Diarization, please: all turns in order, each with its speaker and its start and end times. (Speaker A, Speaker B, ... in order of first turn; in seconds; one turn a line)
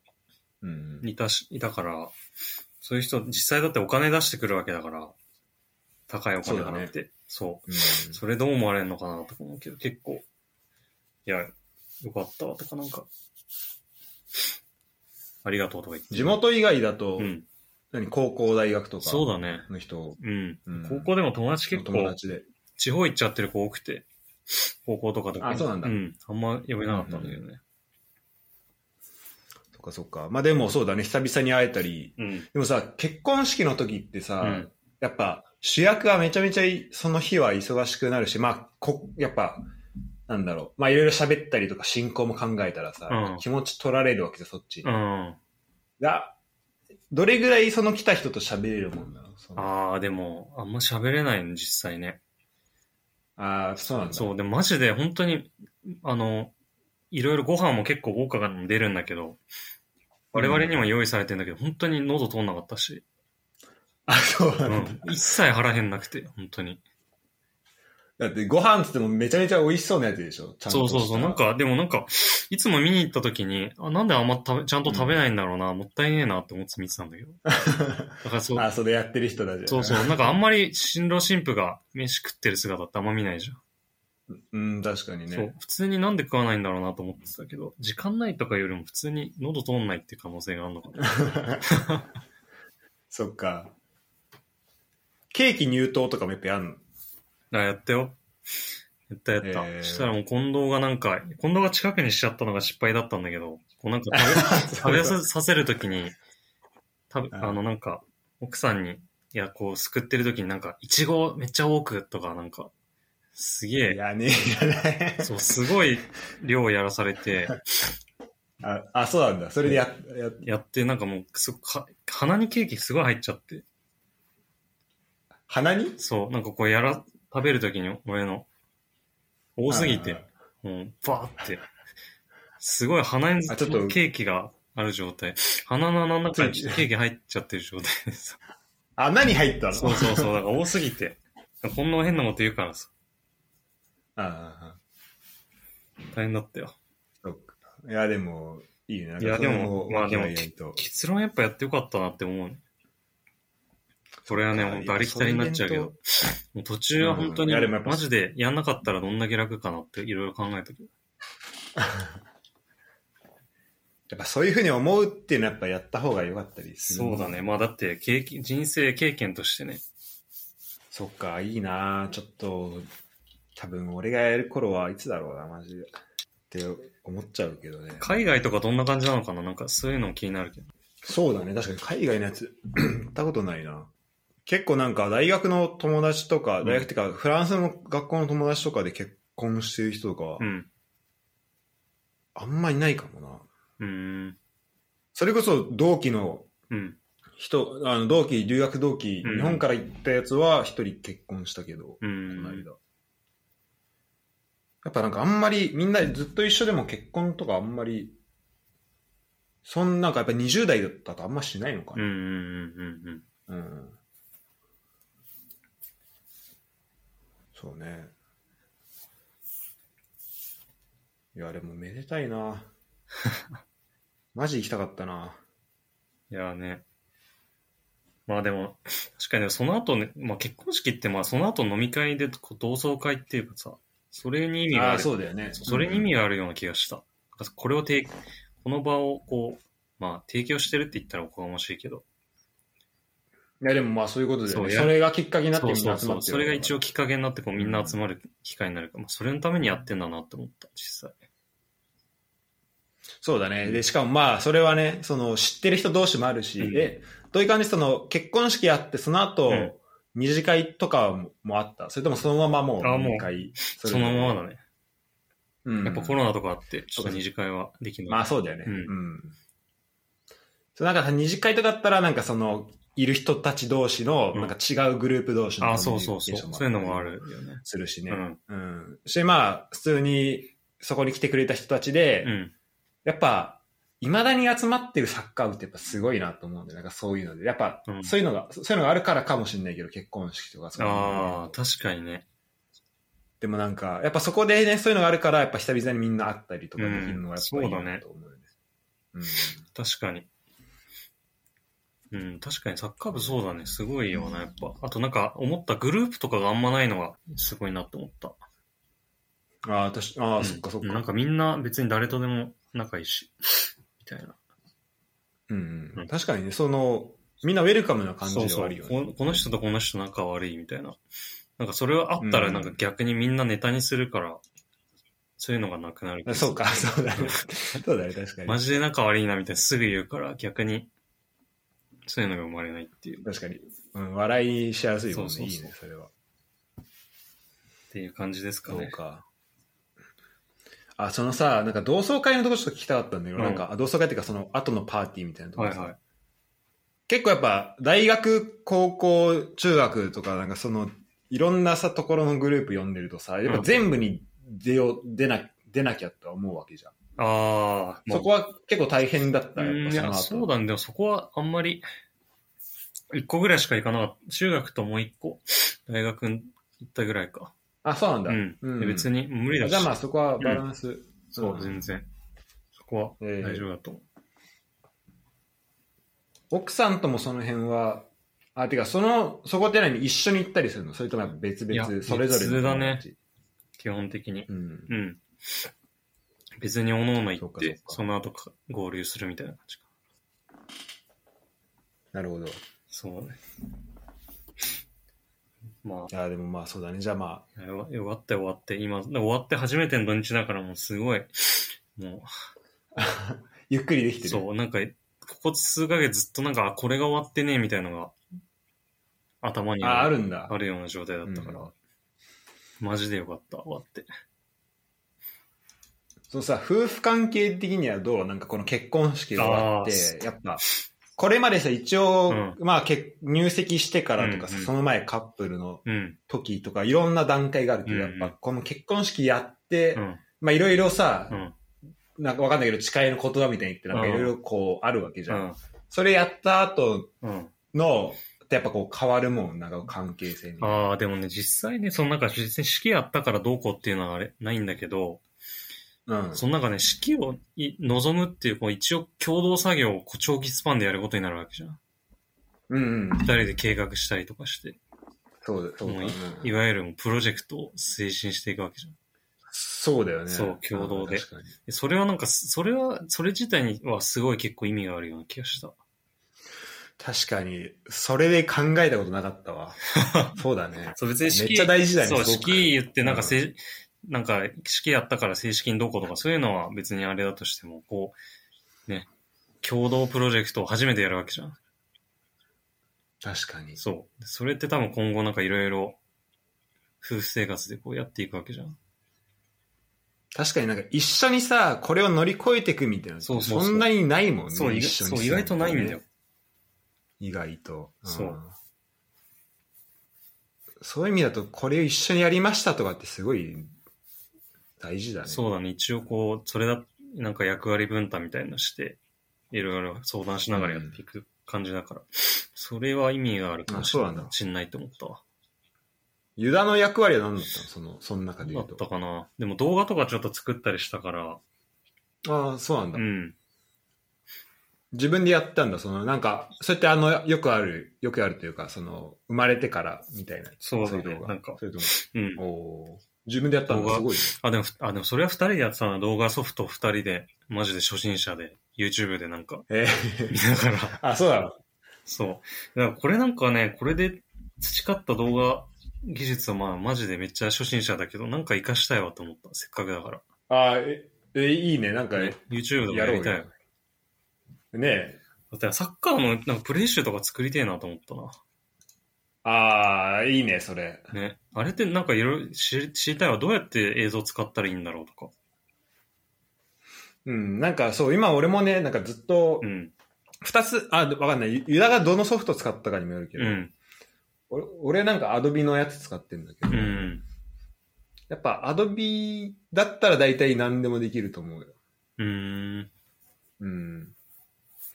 Speaker A: 0.6-1.1
Speaker B: 1.0-2.1
Speaker B: 2.8-5.1
Speaker B: 6.1-10.2
Speaker A: 6.4-6.9
Speaker A: 7.7-8.2
Speaker B: 11.2-13.1
Speaker B: 15.4-16.4
Speaker A: 16.1-17.3
Speaker B: 17.2-17.5
Speaker A: 17.9-21.1
Speaker B: 19.0-19.7
Speaker B: 20.2-22.2
Speaker A: 21.7-22.4
Speaker B: 22.8-27.6
Speaker A: 25.4-25.9
Speaker A: 26.9-27.4
Speaker A: 29.7-39.7
Speaker B: 32.2-32.5
Speaker B: 34.4-34.7
Speaker A: 40.3-44.9
Speaker B: 43.1-43.4
Speaker B: 44.8-45.4
Speaker A: 46.0-46.3
Speaker A: 47.1-49.7
Speaker B: 49.5-52.2
Speaker A: 53.4-54.3
Speaker B: 54.1-56.5
Speaker B: 57.1-59.4
Speaker A: 60.3-60.9
Speaker B: 60.3-63.0
Speaker A: 64.1-65.2
Speaker B: 64.7-66.8
Speaker A: 68.2-71.4
Speaker B: 70.7-77.4
Speaker A: 74.8-75.2
Speaker A: 77.5-80.2
Speaker B: 78.2-78.7
Speaker B: 79.7-83.6
Speaker A: 84.3-85.5
Speaker B: 85.3-92.0
Speaker A: 91.0-91.6
Speaker A: 93.1-93.7
Speaker A: 95.3-96.8
Speaker B: 97.5-98.2
Speaker B: 99.1-106.1
Speaker A: 99.4-100.1
Speaker A: 104.1-105.2
Speaker B: 107.1-112.7
Speaker A: 107.3-107.6
Speaker B: 113.3-114.0
Speaker A: 113.8-115.3
Speaker B: 115.2-117.6
Speaker A: 118.6-120.4
Speaker B: 120.4-123.6
Speaker A: 125.5-126.0
Speaker B: 126.0-128.5
Speaker B: 129.6-131.6
Speaker A: 129.7-130.3
Speaker B: 132.6-138.4
Speaker A: 133.5-134.0
Speaker A: 136.3-136.8
Speaker A: 139.0-140.3
Speaker B: 139.7-142.9
Speaker A: 144.2-144.8
Speaker B: 146.1-146.7
Speaker A: 147.2-150.8
Speaker B: 149.2-152.6
Speaker A: 154.2-155.9
Speaker B: 154.3-160.9
Speaker A: 157.0-158.0
Speaker A: 161.8-162.0
Speaker A: 164.1-167.4
Speaker B: 166.8-169.8
Speaker A: 170.9-172.8
Speaker A: 173.6-175.9
Speaker A: 176.5-178.1
Speaker B: 178.0-180.7
Speaker A: 181.0-183.9
Speaker A: 184.4-190.5
Speaker B: 186.6-186.9
Speaker B: 190.4-190.7
Speaker A: 192.3-193.5
Speaker B: 193.8-194.4
Speaker A: 195.1-196.5
Speaker B: 196.7-197.0
Speaker A: 197.4-202.8
Speaker B: 199.2-199.6
Speaker B: 202.0-202.6
Speaker A: 204.8-208.2
Speaker A: 209.6-212.1
Speaker B: 211.9-213.2
Speaker A: 213.5-214.0
Speaker A: 217.5-218.1
Speaker A: 221.3-222.7
Speaker A: 224.3-225.4
Speaker B: 226.3-226.8
Speaker B: 228.3-242.0
Speaker A: 234.7-236.1
Speaker A: 243.6-246.8
Speaker B: 244.5-245.0
Speaker B: 245.5-251.2
Speaker A: 247.6-247.9
Speaker A: 253.2-264.4
Speaker B: 256.6-256.9
Speaker B: 259.5-259.7
Speaker B: 262.8-264.6
Speaker A: 265.6-266.2
Speaker B: 265.8-268.9
Speaker A: 266.9-267.2
Speaker A: 268.1-269.4
Speaker A: 270.8-282.3
Speaker B: 275.6-278.4
Speaker B: 282.2-282.5
Speaker A: 283.0-291.6
Speaker B: 287.9-288.1
Speaker B: 290.8-292.2
Speaker A: 293.4-298.4
Speaker B: 296.8-298.0
Speaker A: 299.1-299.6
Speaker B: 299.7-300.3
Speaker B: 302.1-308.4
Speaker A: 309.6-311.1
Speaker B: 310.4-314.4
Speaker A: 315.5-319.0
Speaker B: 318.2-321.0
Speaker B: 321.6-324.4
Speaker A: 322.2-322.8
Speaker B: 325.4-327.8
Speaker A: 326.2-328.6
Speaker B: 328.4-330.9
Speaker B: 332.0-333.2
Speaker A: 333.2-336.1
Speaker B: 335.1-335.7
Speaker B: 337.9-338.9
Speaker A: 338.7-339.2
Speaker A: 341.0-345.9
Speaker B: 343.4-343.7
Speaker B: 345.6-346.0
Speaker A: 347.1-356.9
Speaker B: 357.2-358.3
Speaker A: 358.1-360.5
Speaker B: 359.6-361.8
Speaker B: 363.1-367.5
Speaker A: 367.8-371.8
Speaker B: 368.3-370.6
Speaker B: 371.3-372.1
Speaker B: 372.8-374.0
Speaker A: 373.2-373.6
Speaker A: 376.5-383.2
Speaker B: 381.7-383.0
Speaker B: 383.8-385.7
Speaker A: 384.5-384.9
Speaker B: 386.6-389.9
Speaker A: 387.4-388.0
Speaker A: 392.1-392.6
Speaker B: 392.9-393.4
Speaker B: 395.8-396.1
Speaker A: 396.1-397.4
Speaker B: 397.6-402.3
Speaker A: 402.9-404.4
Speaker B: 404.2-408.1
Speaker B: 409.4-411.7
Speaker A: 409.8-410.5
Speaker A: 411.2-411.7
Speaker B: 412.8-414.1
Speaker A: 416.3-420.6
Speaker B: 419.4-420.1
Speaker A: 421.1-431.4
Speaker B: 422.3-422.6
Speaker B: 424.2-424.7
Speaker B: 425.9-426.2
Speaker B: 427.9-428.3
Speaker B: 429.9-430.2
Speaker A: 432.2-437.1
Speaker B: 433.9-434.3
Speaker B: 435.3-435.6
Speaker B: 437.2-437.5
Speaker A: 437.7-440.8
Speaker B: 440.6-445.2
Speaker A: 446.1-446.4
Speaker B: 446.3-451.8
Speaker A: 452.7-453.5
Speaker B: 453.2-454.8
Speaker A: 455.4-456.5
Speaker B: 455.8-458.9
Speaker A: 459.5-461.5
Speaker B: 460.3-465.7
Speaker A: 467.0-469.8
Speaker B: 470.0-470.4
Speaker A: 470.3-473.4
Speaker B: 470.9-478.2
Speaker B: 479.6-481.6
Speaker A: 483.2-483.8
Speaker B: 483.8-486.0
Speaker B: 487.0-488.8
Speaker A: 490.3-496.0
Speaker B: 493.2-493.9
Speaker B: 494.5-496.0
Speaker A: 497.2-498.5
Speaker B: 498.1-498.4
Speaker A: 500.8-503.7
Speaker A: 504.8-505.4
Speaker B: 505.2-509.0
Speaker B: 509.5-515.2
Speaker A: 510.5-511.0
Speaker A: 513.7-514.3
Speaker A: 516.4-518.8
Speaker B: 518.4-521.4
Speaker A: 522.2-523.0
Speaker B: 522.9-523.4
Speaker A: 524.9-534.3
Speaker B: 530.6-532.4
Speaker B: 533.7-539.6
Speaker A: 539.7-540.4
Speaker B: 540.3-541.0
Speaker A: 541.0-541.5
Speaker B: 542.0-550.2
Speaker A: 550.5-552.4
Speaker B: 552.1-553.5
Speaker A: 552.9-553.5
Speaker A: 554.7-555.2
Speaker B: 555.5-558.4
Speaker A: 559.4-561.1
Speaker B: 561.1-565.3
Speaker A: 567.2-569.7
Speaker B: 569.6-569.9
Speaker A: 570.4-573.6
Speaker B: 573.4-573.7
Speaker A: 574.5-577.2
Speaker B: 576.7-577.2
Speaker A: 578.3-581.7
Speaker B: 582.2-582.9
Speaker A: 583.6-584.1